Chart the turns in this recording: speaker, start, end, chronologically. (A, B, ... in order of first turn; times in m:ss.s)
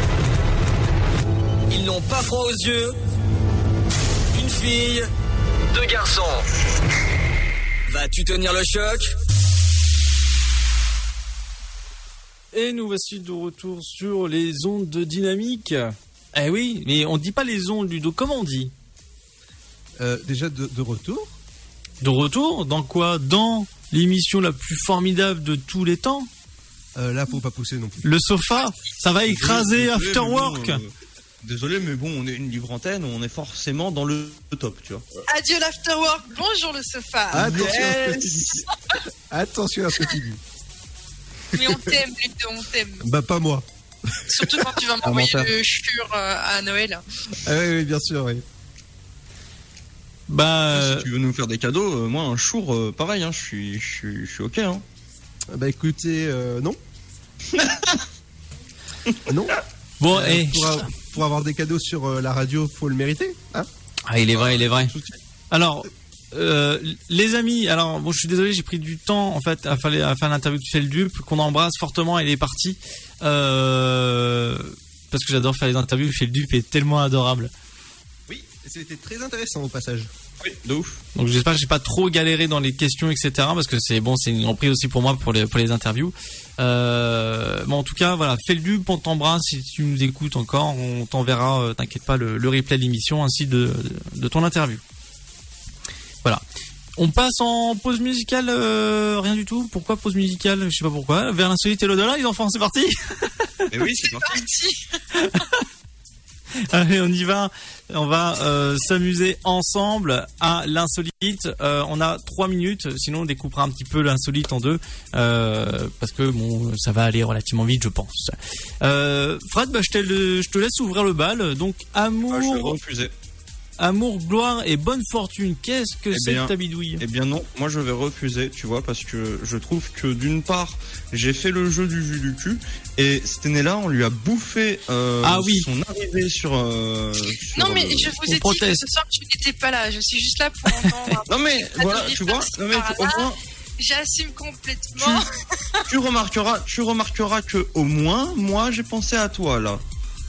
0:01.7-0:02.9 A
0:04.3-0:05.1 A
0:05.7-0:06.4 A
0:07.9-0:09.1 A
0:12.5-0:18.7 B
0:20.0-0:21.3 C
0:22.0-0:26.3 B
0:27.0-0:28.0 C
0:28.0-0:30.8 B
0:29.2-0:30.9 D
0:31.4-0:35.0 D
0:35.3-0:37.7 E
0:37.3-0:38.5 C
0:37.3-0:38.7 D
0:39.3-0:40.4 C
0:41.5-0:43.0 E
0:43.0-0:44.6 C
0:44.3-0:47.0 E
0:45.0-0:45.5 D
0:47.4-0:48.4 C
0:50.3-0:51.1 B
0:50.7-0:54.8 D
0:55.5-0:56.8 C
0:57.5-0:58.0 D
0:59.3-1:03.7 C
1:00.0-1:00.8 B
1:04.1-1:04.9 B
1:04.3-1:05.2 D
1:05.5-1:17.5 B
1:18.3-1:20.1 C
1:20.4-1:21.0 D
1:21.1-1:34.8 B
1:37.0-1:43.6 B
1:43.7-1:44.5 D
1:43.9-1:44.8 E
1:45.2-1:45.6 B
1:46.6-2:02.8 B
2:02.3-2:03.1 D
2:03.8-2:07.0 B
2:06.1-2:18.2 D
2:15.2-2:15.7 B
2:17.5-2:25.8 E
2:18.2-2:18.8 B
2:21.3-2:23.4 D
2:25.0-2:25.2 D
2:25.9-2:29.8 D